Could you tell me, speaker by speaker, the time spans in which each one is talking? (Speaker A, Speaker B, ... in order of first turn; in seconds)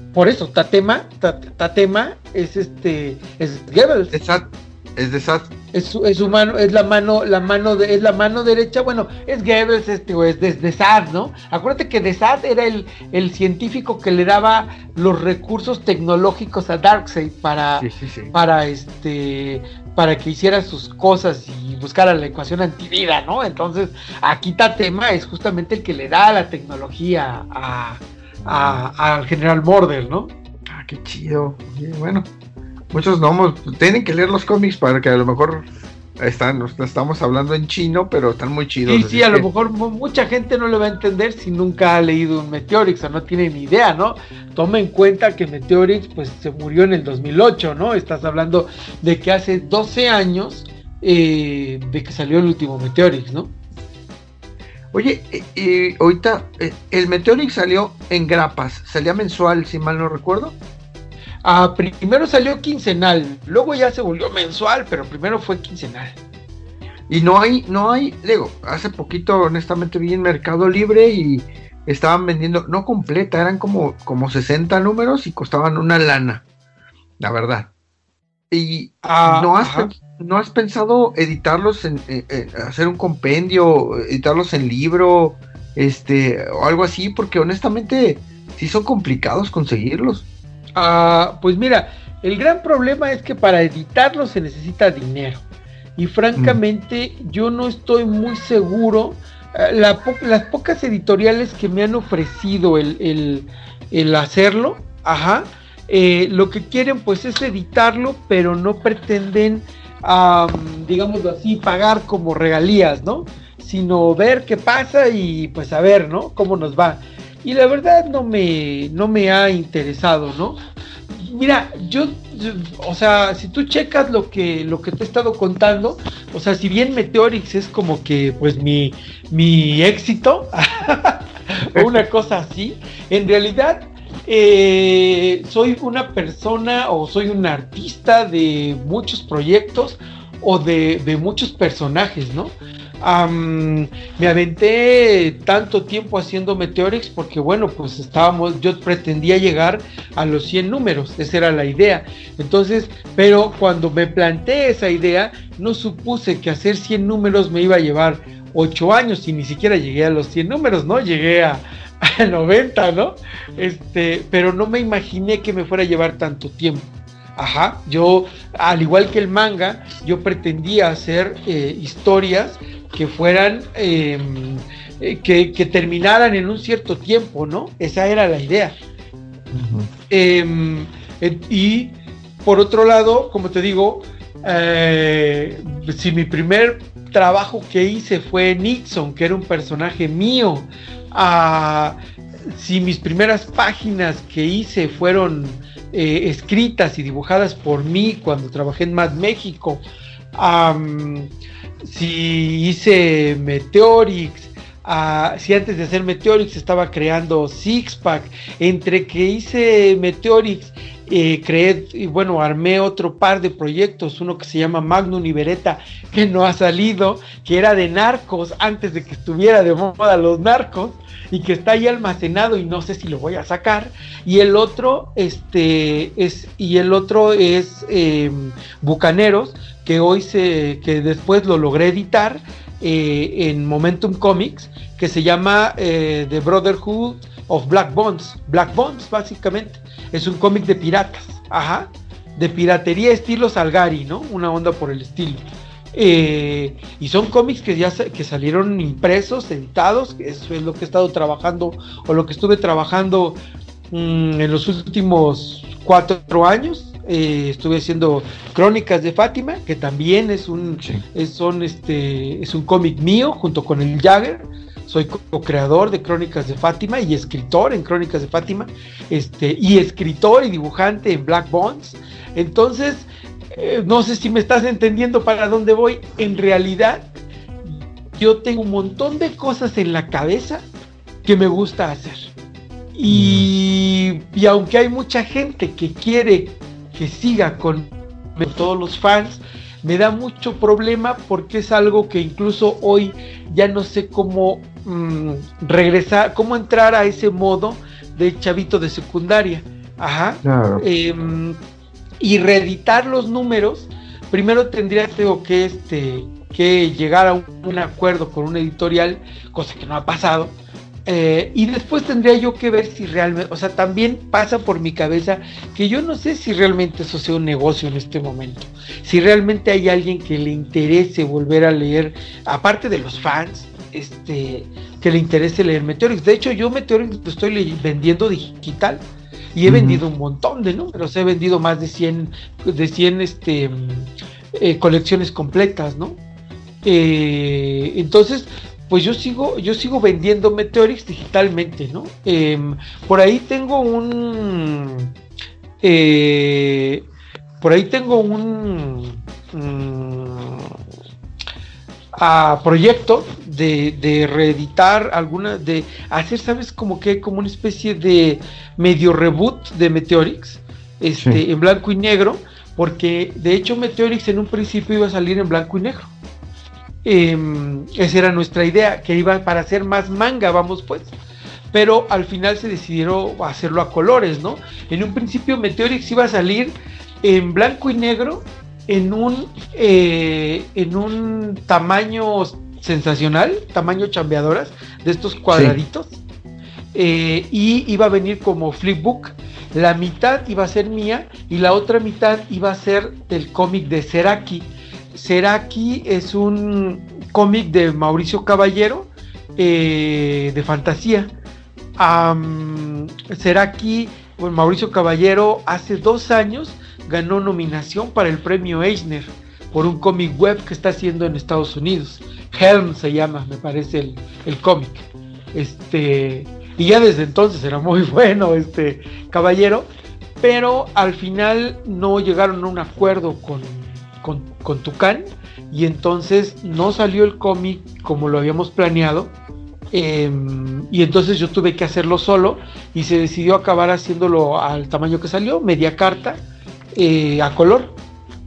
Speaker A: 0.1-4.1, 5.7-30.3, 38.9-53.5, 61.4-66.2, 79.0-79.9, 90.8-95.4, 96.0-120.6, 121.1-178.8, 180.1-192.0, 192.5-201.3, 201.8-253.4, 253.9-277.1, 277.6-280.7, 281.2-282.3, 283.0-301.6, 302.2-329.0, 329.6-336.2, 336.8-345.1, 345.8-347.0, 347.6-350.8, 352.2-366.1, 367.0-371.1, 371.7-386.2, 386.9-401.3, 402.0-419.9, 420.4-429.3, 429.9-436.4, 437.0-438.0
Speaker B: 4.1-5.5, 17.8-18.3, 28.5-28.8, 30.7-32.3, 32.9-35.7, 36.2-39.5, 54.9-60.6, 67.1-76.4, 77.2-77.7, 78.5-90.3, 131.8-132.0, 179.5-179.9, 283.1-283.5, 300.4-300.9, 329.7-330.0, 385.5-385.8